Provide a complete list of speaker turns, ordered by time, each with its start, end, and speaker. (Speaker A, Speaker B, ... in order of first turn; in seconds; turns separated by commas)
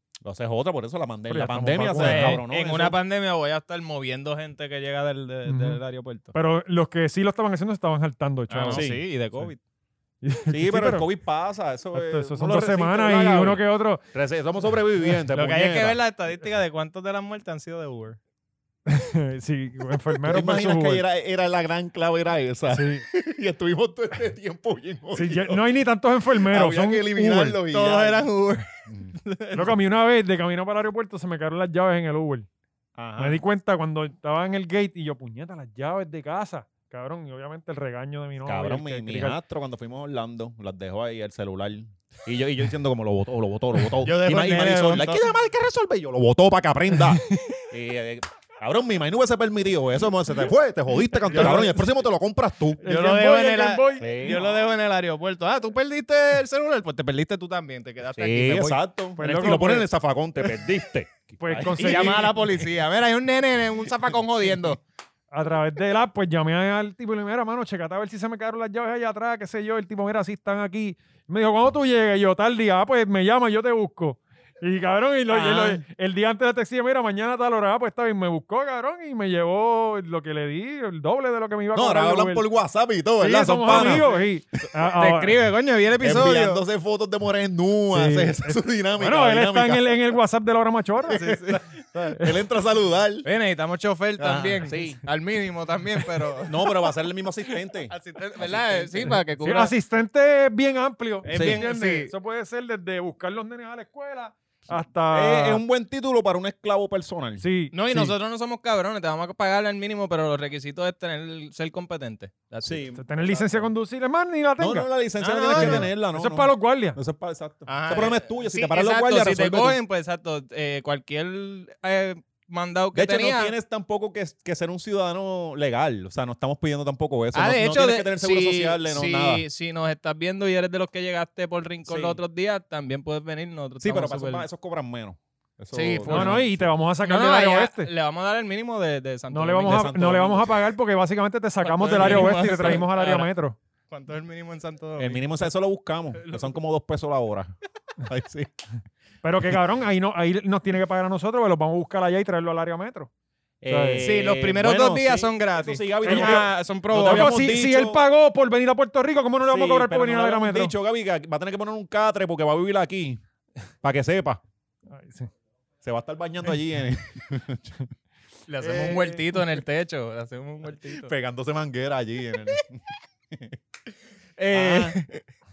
Speaker A: 0.2-3.0, Speaker B: 1.3-2.4, Speaker C: 1.9-6.3, Speaker B: 5.5-5.8, Speaker B: 6.3-9.5, Speaker C: 8.5-9.6, Speaker A: 8.7-9.0, Speaker B: 10.2-11.1, Speaker A: 10.5-16.0, Speaker B: 11.9-14.0, Speaker C: 15.3-18.2, Speaker B: 18.9-21.0, Speaker A: 20.2-25.6, Speaker B: 22.7-23.0, Speaker B: 25.1-27.6, Speaker A: 26.4-28.3, Speaker C: 27.7-28.7, Speaker A: 28.9-29.1, Speaker C: 29.2-29.7, Speaker B: 29.5-32.5, Speaker A: 33.0-33.4, Speaker B: 33.2-39.4, Speaker A: 38.5-52.8, Speaker C: 44.0-45.3, Speaker B: 51.3-51.8, Speaker C: 51.3-51.8, Speaker B: 52.8-54.6, Speaker C: 52.8-58.8, Speaker A: 54.0-54.4, Speaker A: 58.2-62.5, Speaker B: 59.2-59.9, Speaker B: 61.4-62.3, Speaker C: 61.8-64.8, Speaker B: 65.3-82.5, Speaker C: 75.3-75.8, Speaker A: 81.7-84.1, Speaker B: 83.2-85.4, Speaker C: 83.8-84.2, Speaker C: 85.0-86.6, Speaker A: 86.0-89.9, Speaker B: 87.9-91.2, Speaker A: 91.1-93.3, Speaker C: 91.2-91.6, Speaker C: 93.2-96.8, Speaker A: 94.2-95.0, Speaker A: 96.5-99.2, Speaker C: 97.9-99.7, Speaker B: 99.4-105.6, Speaker C: 101.2-102.1, Speaker A: 101.3-101.7, Speaker A: 105.1-108.1, Speaker B: 107.4-108.1, Speaker C: 107.7-112.8, Speaker A: 112.6-113.7, Speaker B: 113.0-114.9, Speaker A: 114.6-119.8, Speaker C: 115.2-115.9, Speaker B: 115.5-117.0, Speaker C: 117.7-123.5, Speaker A: 122.9-129.4, Speaker C: 127.3-134.5, Speaker A: 131.9-132.2, Speaker A: 133.8-136.7, Speaker C: 135.7-136.4, Speaker B: 136.1-137.9, Speaker C: 137.0-139.9, Speaker B: 139.3-143.6, Speaker A: 139.6-140.6, Speaker C: 141.6-143.3, Speaker A: 141.9-142.8, Speaker C: 143.9-145.2, Speaker A: 145.0-148.5, Speaker C: 146.2-146.5, Speaker B: 149.2-153.1, Speaker A: 153.6-158.0, Speaker B: 153.7-154.0, Speaker C: 154.0-157.4, Speaker B: 156.1-156.4, Speaker B: 157.0-160.7, Speaker A: 159.4-163.2, Speaker A: 163.8-164.4, Speaker B: 164.9-165.3, Speaker A: 165.8-167.8, Speaker C: 168.5-171.1, Speaker A: 168.6-169.2, Speaker B: 168.7-169.2, Speaker A: 170.8-173.6, Speaker C: 174.4-175.2, Speaker A: 174.5-175.0